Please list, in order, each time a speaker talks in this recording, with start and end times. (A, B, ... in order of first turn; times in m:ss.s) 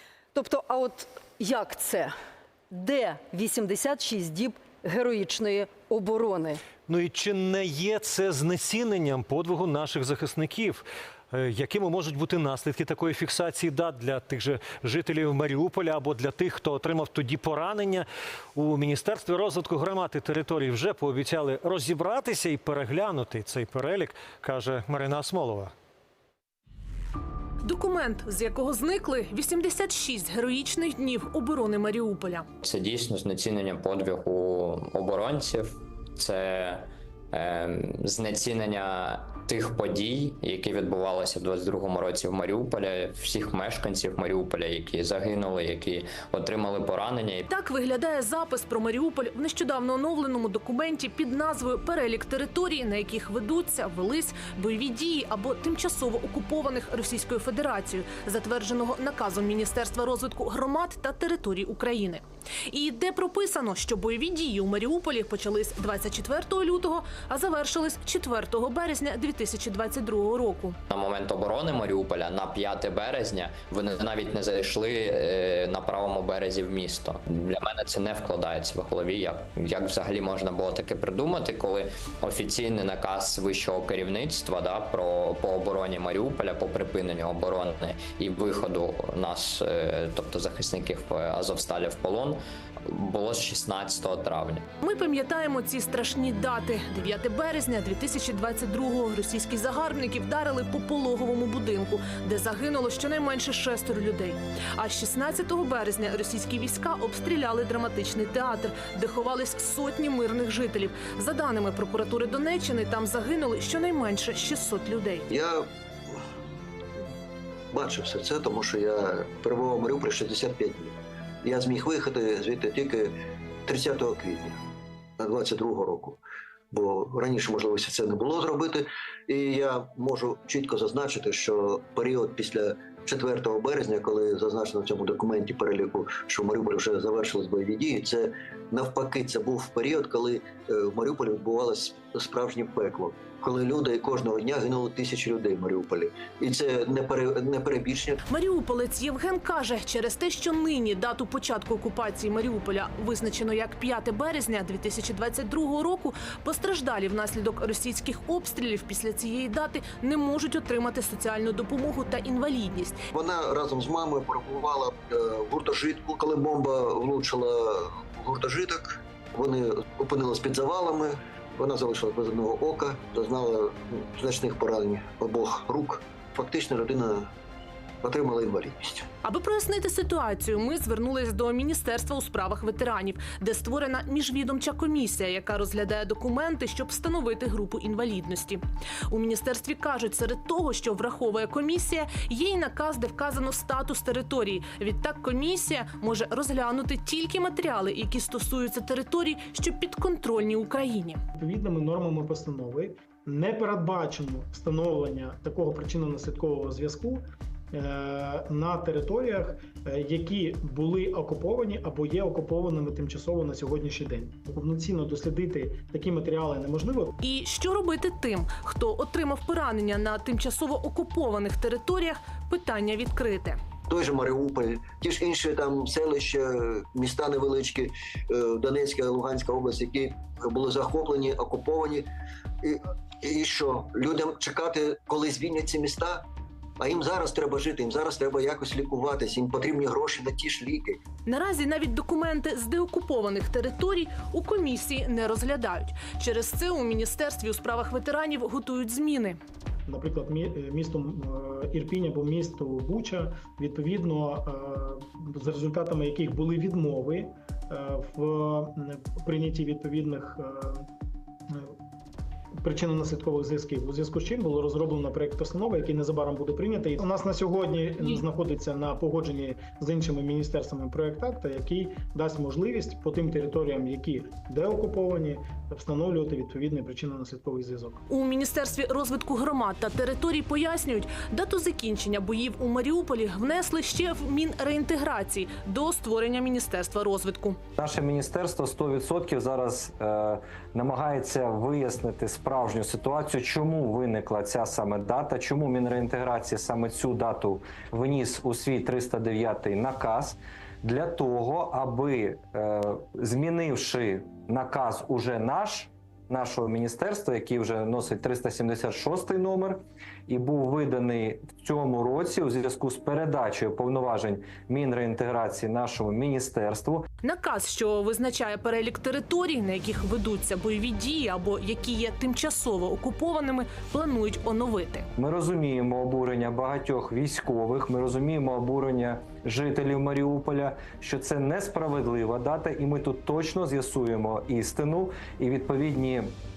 0:00.3-0:02.1 A
0:02.7-0:06.6 A
0:06.9-0:25.7 B
0:27.6-0:32.5 C
0:32.6-0:47.5 D
0:47.5-1:10.8 C
1:10.9-1:34.6 D
1:34.8-1:55.2 C
1:55.3-1:55.6 E
1:57.7-2:03.1 E
2:03.7-2:04.6 E
2:05.2-2:06.2 E
2:06.7-2:28.2 E
2:28.3-2:43.0 C
2:43.1-2:57.3 E
2:58.0-2:59.0 E
2:59.2-3:21.2 C
3:21.3-3:37.1 F
3:37.2-3:43.6 C
3:43.9-3:52.1 E
3:52.6-3:56.2 E
3:56.8-4:01.0 E
4:01.2-4:09.4 C
4:09.9-4:20.8 F
4:21.5-4:21.8 F
4:22.6-4:38.0 F
4:38.1-4:47.6 C
4:47.8-5:17.0 G
5:17.2-5:25.1 C
5:25.2-5:36.3 G